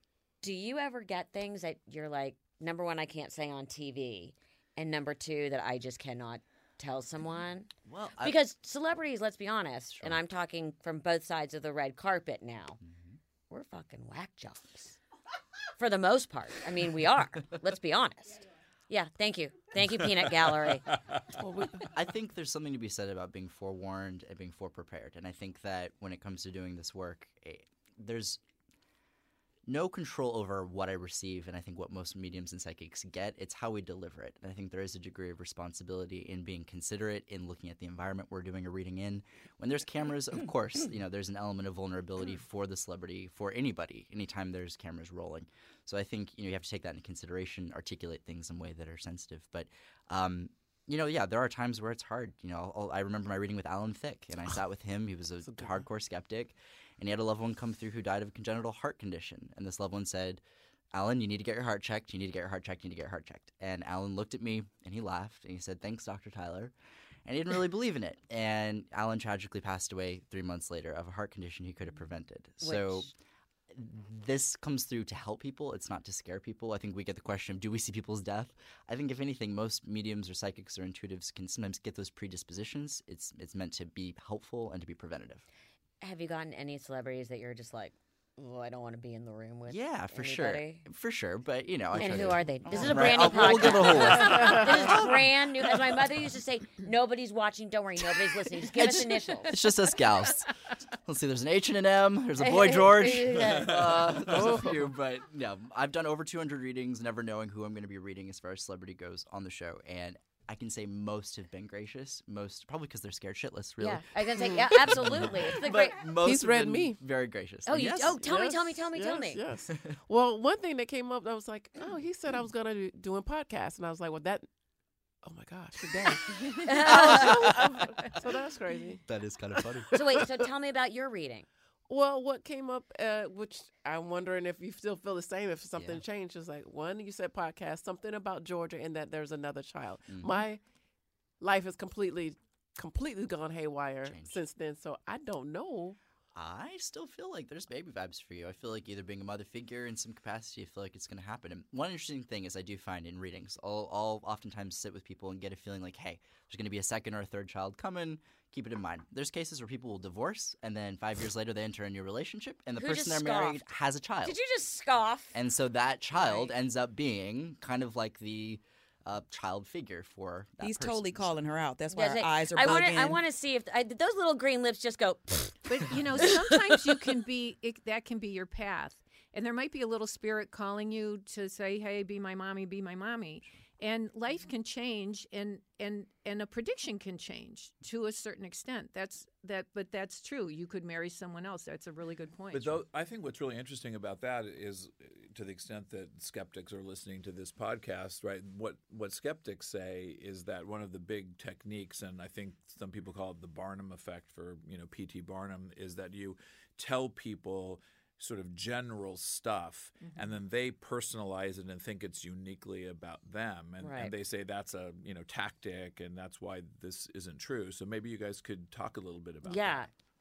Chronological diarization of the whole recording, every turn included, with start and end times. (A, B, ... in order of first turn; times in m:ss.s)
0:00.4-0:12.8 A
0:07.9-0:08.4 B
0:12.8-0:13.2 B
0:13.5-0:15.0 A
0:15.8-0:21.0 A
0:21.4-0:21.9 C
0:21.9-0:28.4 B
0:29.7-1:00.4 B
0:55.4-0:55.8 C
1:00.9-1:06.7 B
1:07.3-1:13.1 B
1:12.6-1:13.1 A
1:13.7-1:25.4 B
1:26.0-1:30.8 A
1:29.7-1:36.0 B
1:31.9-1:39.9 A
1:34.3-1:34.7 C
1:38.7-1:58.2 B
1:42.4-1:43.8 A
1:43.4-1:44.3 D
1:44.3-1:44.9 C
1:53.8-1:56.1 A
1:56.2-1:57.0 C
1:57.7-1:59.4 A
1:58.2-2:04.5 C
2:05.2-2:10.4 C
2:06.6-2:07.6 A
2:09.1-2:09.9 B
2:09.9-2:11.5 A
2:11.9-2:20.6 C
2:15.8-2:16.0 B
2:20.1-2:20.4 B
2:21.4-2:26.0 C
2:24.0-2:24.4 B
2:26.3-2:44.4 B
2:42.8-2:43.6 A
2:44.2-2:45.4 A
2:45.3-2:51.3 B
2:50.6-2:53.2 E
2:51.9-2:56.6 A
2:55.7-3:12.8 F
3:12.5-3:39.8 D
3:30.0-3:30.4 F
3:33.8-3:34.1 A
3:39.5-3:39.9 A